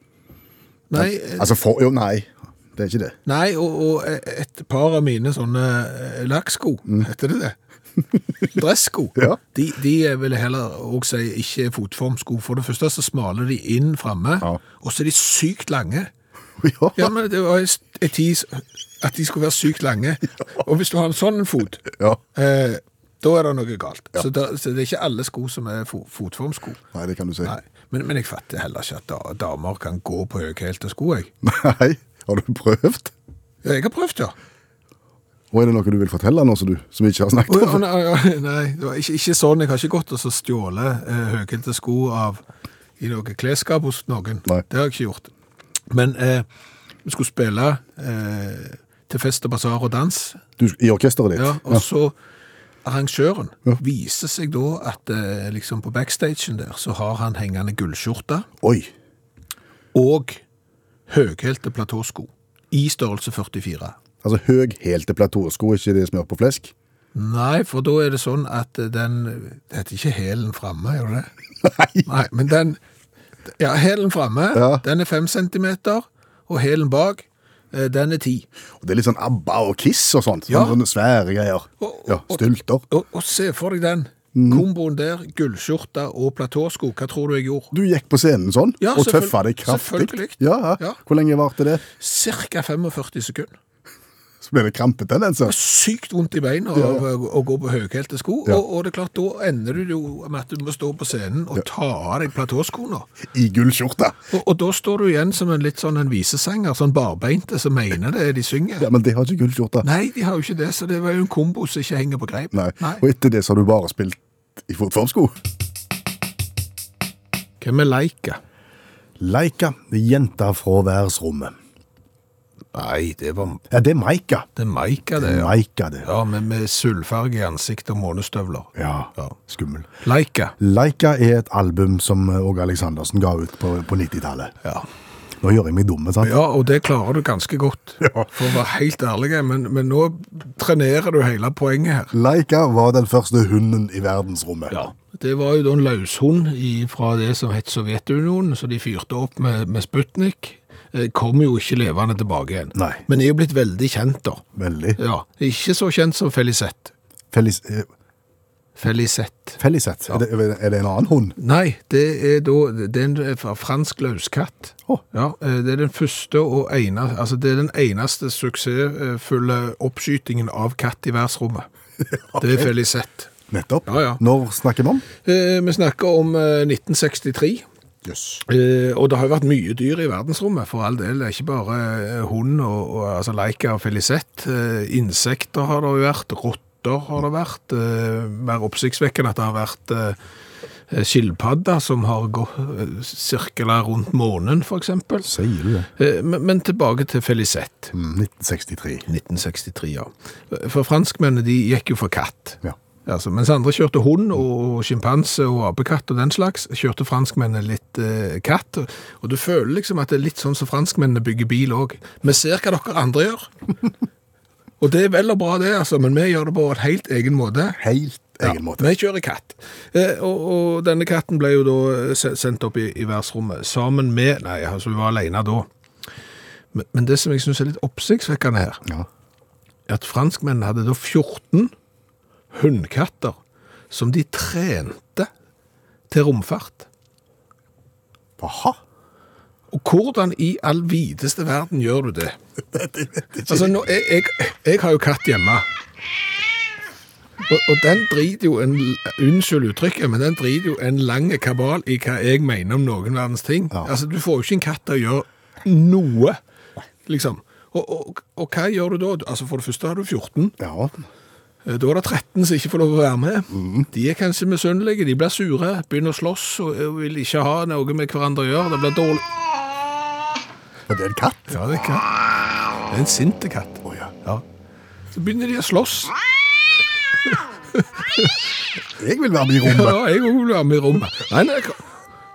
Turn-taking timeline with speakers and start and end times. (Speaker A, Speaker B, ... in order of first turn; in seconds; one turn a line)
Speaker A: 0.9-1.6
Speaker B: 0.9-3.1
Speaker A: 3.2-7.5
Speaker A: 8.4-16.1
Speaker B: 16.6-17.1
Speaker A: 16.9-26.8
Speaker B: 26.9-27.6
Speaker A: 27.4-31.3
Speaker B: 31.4-33.1
Speaker A: 33.6-34.3
Speaker B: 35.5-37.8
Speaker A: 37.5-42.4
Speaker A: 43.0-45.3
Speaker A: 45.9-46.5
Speaker A: 47.0-50.4
Speaker B: 50.6-51.8
Speaker A: 51.4-52.1
Speaker A: 52.8-58.5
Speaker B: 58.6-58.9
Speaker A: 59.9-60.4
Speaker A: 61.1-64.0
Speaker B: 64.2-66.7
Speaker A: 67.1-71.3
Speaker B: 71.6-72.1
Speaker A: 72.0-72.8
Speaker A: 73.6-78.5
Speaker B: 74.5-74.8
Speaker B: 78.8-82.8
Speaker A: 80.5-80.8
Speaker A: 81.8-87.7
Speaker B: 84.3-84.7
Speaker B: 87.7-91.8
Speaker A: 88.8-91.0
Speaker A: 92.0-93.5
Speaker B: 94.4-95.5
Speaker A: 95.5-103.1
Speaker B: 96.7-97.0
Speaker B: 103.3-104.2
Speaker A: 104.3-108.9
Speaker B: 108.8-109.9
Speaker A: 109.8-113.0
Speaker B: 112.5-115.4
Speaker A: 117.6-118.4
Speaker B: 119.2-121.5
Speaker A: 122.7-123.6
Speaker B: 123.7-124.5
Speaker A: 124.6-129.3
Speaker B: 125.2-126.1
Speaker B: 128.8-129.9
Speaker A: 130.0-130.5
Speaker B: 130.6-134.5
Speaker B: 135.4-136.3
Speaker A: 136.2-142.1
Speaker B: 138.0-138.3
Speaker B: 142.1-144.8
Speaker A: 144.7-154.4
Speaker B: 152.7-153.0
Speaker B: 154.5-155.0
Speaker A: 155.0-156.9
Speaker B: 157.3-157.9
Speaker A: 158.8-159.6
Speaker B: 159.6-161.3
Speaker A: 161.4-171.7
Speaker B: 172.2-172.7
Speaker A: 172.4-173.3
Speaker B: 173.5-175.1
Speaker A: 173.9-174.2
Speaker A: 175.2-177.6
Speaker B: 178.0-178.4
Speaker A: 178.5-190.2
Speaker A: 190.9-195.3
Speaker B: 195.2-195.9
Speaker A: 196.0-197.9
Speaker B: 197.9-199.1
Speaker A: 199.1-213.5
Speaker A: 214.8-217.8
Speaker B: 217.7-218.9
Speaker A: 218.4-225.7
Speaker A: 226.7-228.8
Speaker A: 229.9-231.7
Speaker A: 232.5-233.4
Speaker A: 233.9-235.3
Speaker A: 236.1-236.9
Speaker B: 238.4-238.8
Speaker A: 239.7-242.3
Speaker B: 242.7-243.8
Speaker A: 243.4-245.6
Speaker A: 247.4-256.4
Speaker A: 257.1-260.6
Speaker B: 260.6-261.0
Speaker A: 261.6-269.2
Speaker B: 263.5-263.9
Speaker B: 270.9-271.6
Speaker A: 271.5-274.4
Speaker B: 273.8-274.1
Speaker A: 275.1-276.1
Speaker A: 277.7-278.4
Speaker B: 279.0-280.0
Speaker A: 279.6-281.8